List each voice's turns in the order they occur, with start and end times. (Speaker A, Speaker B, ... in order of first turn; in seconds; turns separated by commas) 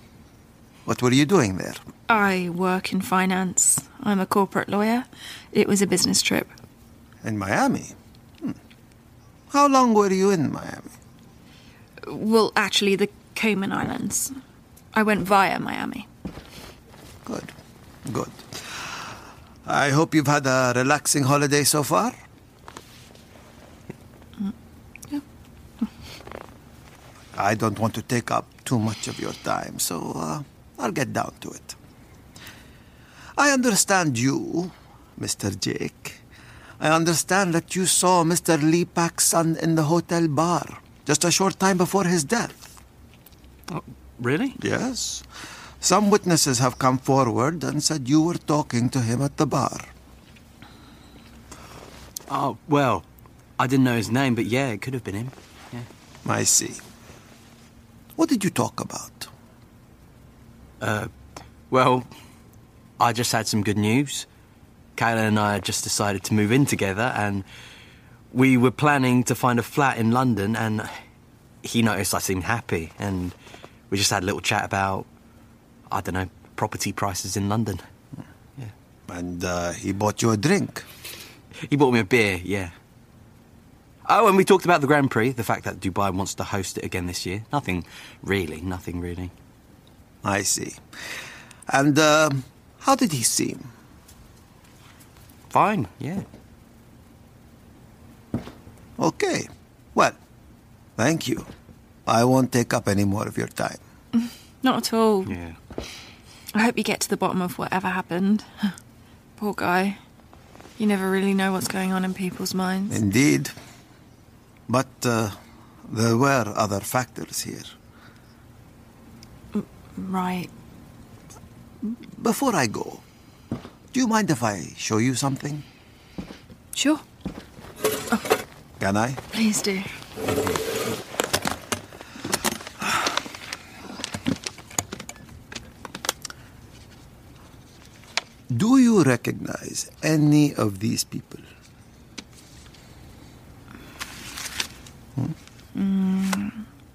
Speaker A: 0.8-1.8, Speaker B: 2.1-6.5, Speaker A: 7.2-8.6, Speaker A: 9.5-10.9, Speaker B: 12.0-14.4, Speaker B: 14.9-16.1, Speaker A: 17.2-19.0, Speaker A: 19.6-22.1, Speaker A: 27.3-31.8, Speaker A: 33.4-36.2, Speaker A: 36.8-42.8, Speaker C: 43.7-44.6, Speaker A: 44.6-45.2, Speaker A: 45.8-49.9, Speaker C: 52.3-53.1, Speaker C: 53.6-55.9, Speaker A: 56.2-56.8, Speaker A: 58.2-59.3, Speaker C: 60.8-61.1, Speaker C: 61.7-62.1, Speaker C: 63.0-64.3, Speaker C: 65.0-67.5, Speaker C: 68.3-70.9, Speaker C: 71.6-73.3, Speaker C: 73.9-75.1, Speaker C: 75.9-77.8, Speaker A: 79.1-80.8, Speaker C: 81.7-82.7, Speaker C: 84.0-89.3, Speaker A: 90.2-90.8, Speaker A: 91.7-93.7, Speaker C: 95.5-96.2, Speaker A: 99.0-100.2, Speaker A: 101.0-101.5, Speaker A: 102.0-103.8, Speaker B: 104.2-105.3, Speaker C: 105.2-105.6, Speaker B: 106.5-108.8, Speaker B: 109.4-110.0, Speaker B: 110.8-113.0, Speaker A: 112.9-113.5, Speaker A: 114.7-117.7, Speaker B: 119.5-120.5, Speaker A: 121.8-123.0, Speaker A: 123.9-125.6, Speaker B: 126.7-127.0, Speaker A: 128.8-129.2, Speaker B: 129.3-129.9, Speaker A: 138.5-141.4, Speaker B: 145.7-146.7